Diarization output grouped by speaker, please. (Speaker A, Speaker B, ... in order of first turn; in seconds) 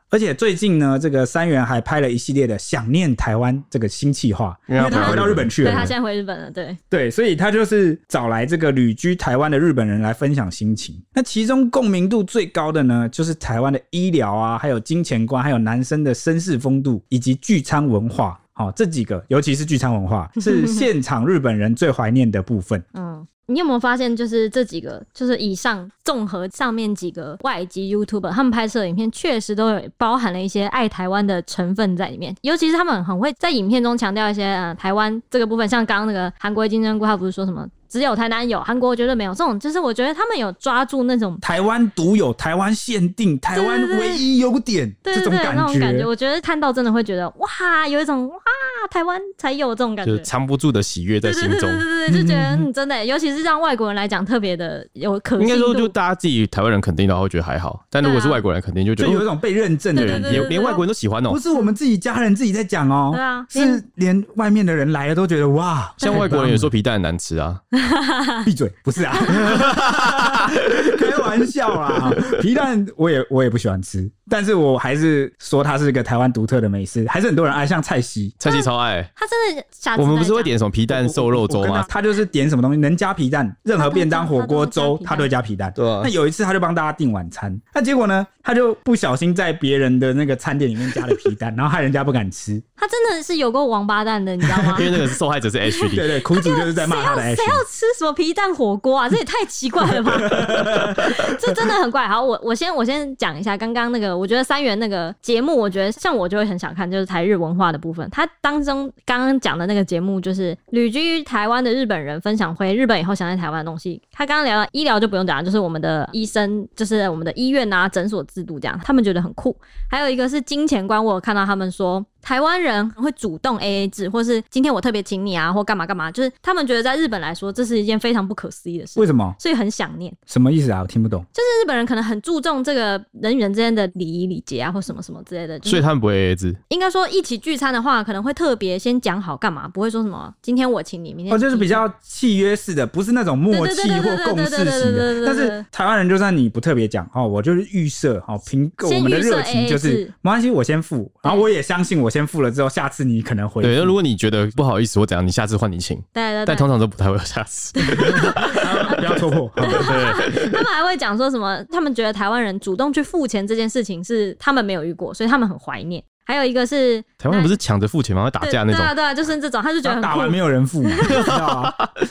Speaker A: 0.1-5.9, 6.9-22.9, 41.4-46.1, 52.1-52.7, 59.0-60.7, 61.3-66.7, 68.5-78.4, 80.9-92.6, 94.5-95.0, 95.9-97.7, 100.1-101.5, 129.0-129.4, 130.3-131.3, 141.3-154.0, 158.0-160.0, 169.8-171.7
Speaker B: 4.7-5.5, 50.0-51.9, 55.4-59.3, 60.0-61.4, 66.0-67.6, 69.4-70.6, 78.4-79.1, 80.0-81.9, 85.8-86.1, 94.7-96.2, 135.7-136.6, 153.6-159.1, 159.7-160.6, 167.2-168.9, 171.1-171.9
Speaker C: 4.8-6.8, 20.4-20.8, 22.9-41.4, 43.5-44.2, 45.0-50.3, 51.2-55.9, 58.0-58.4, 59.9-60.8, 63.1-63.8, 66.0-66.3, 67.8-68.5, 69.1-69.5, 78.5-80.5, 83.8-85.3, 92.8-95.0, 95.7-130.2, 131.3-135.8, 136.7-141.8, 143.5-145.6, 148.8-150.1, 156.1-156.7, 157.8-159.1, 159.6-167.6, 168.4-171.3